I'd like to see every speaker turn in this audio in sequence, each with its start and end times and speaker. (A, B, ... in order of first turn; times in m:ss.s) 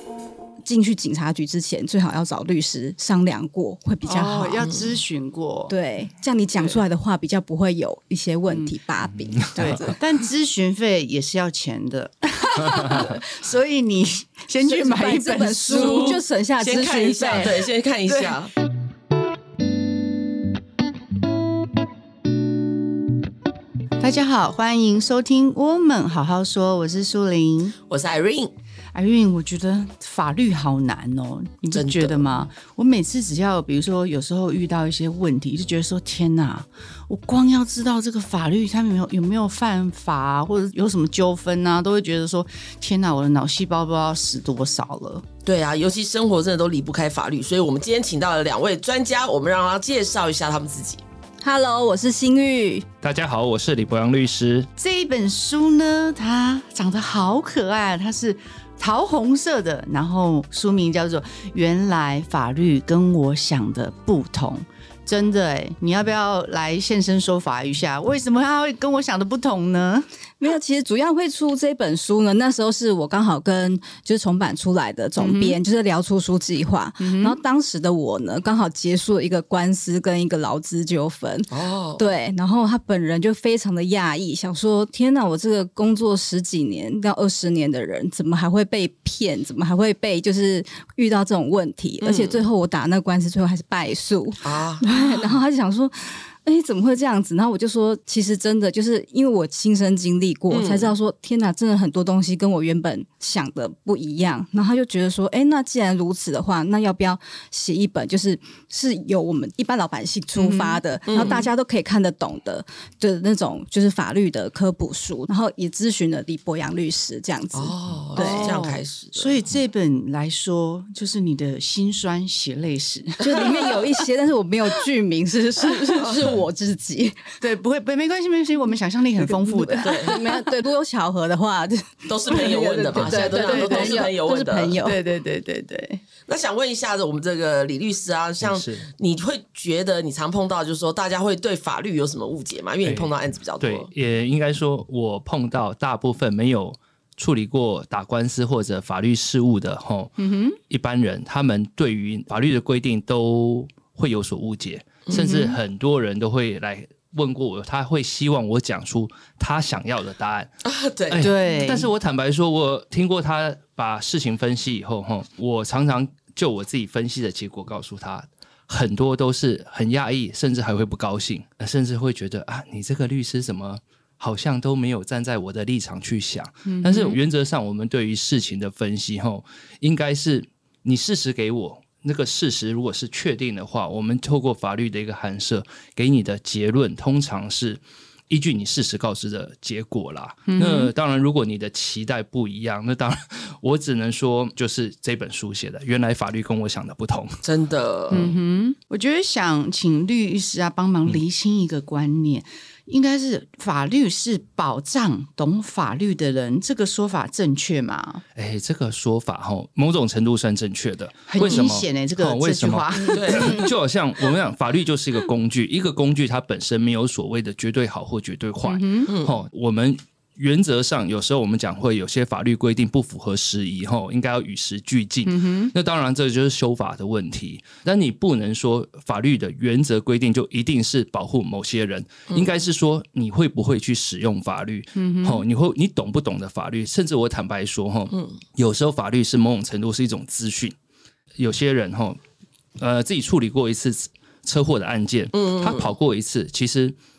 0:00.7-0:04.7 A
0:04.0-0:05.7 B
0:05.7-0:10.0 A
0:08.5-0:08.8 B
0:09.3-0:09.9 C
0:09.6-0:16.2 B
0:12.6-0:13.2 C
0:14.6-0:17.6 A
0:15.7-0:18.5 D
0:18.1-0:18.4 B
0:24.0-0:27.8 B
0:27.9-0:28.5 D
0:28.9-0:45.2 B
0:31.7-0:32.3 D
0:45.5-0:51.0 D
0:51.4-0:52.9 A
0:53.0-0:54.7 C
0:54.8-1:10.1 B
1:10.4-1:58.6 A
1:15.2-1:15.6 B
1:17.0-1:17.4 B
1:21.5-1:22.0 D
1:32.0-1:32.4 D
1:34.4-1:34.8 D
1:40.5-1:40.9 D
1:50.4-1:51.5 B
1:51.1-1:51.5 D
1:57.5-1:59.4 D
1:58.2-2:03.9 B
2:03.2-2:07.2 A
2:06.0-2:06.3 D
2:07.4-2:10.3 B
2:09.2-2:15.0 A
2:09.8-2:10.2 D
2:12.1-2:14.8 D
2:12.9-2:14.1 B
2:14.8-2:16.0 B
2:16.3-2:23.9 D
2:18.4-2:18.9 C
2:22.8-2:40.5 C
2:30.2-2:30.6 B
2:35.1-2:35.6 B
2:40.6-2:41.3 D
2:41.1-3:17.4 C
2:41.2-2:41.9 B
2:56.7-2:57.2 B
3:10.5-3:10.9 B
3:17.4-3:18.4 D
3:18.1-3:28.2 B
3:28.4-4:00.8 C
3:31.3-3:33.7 B
3:33.1-3:33.7 D
3:38.7-3:39.1 B
3:39.1-3:39.3 D
3:45.3-3:45.7 B
3:55.0-3:55.4 B
4:01.4-4:02.2 C
4:02.8-4:07.0 C
4:05.3-4:05.9 D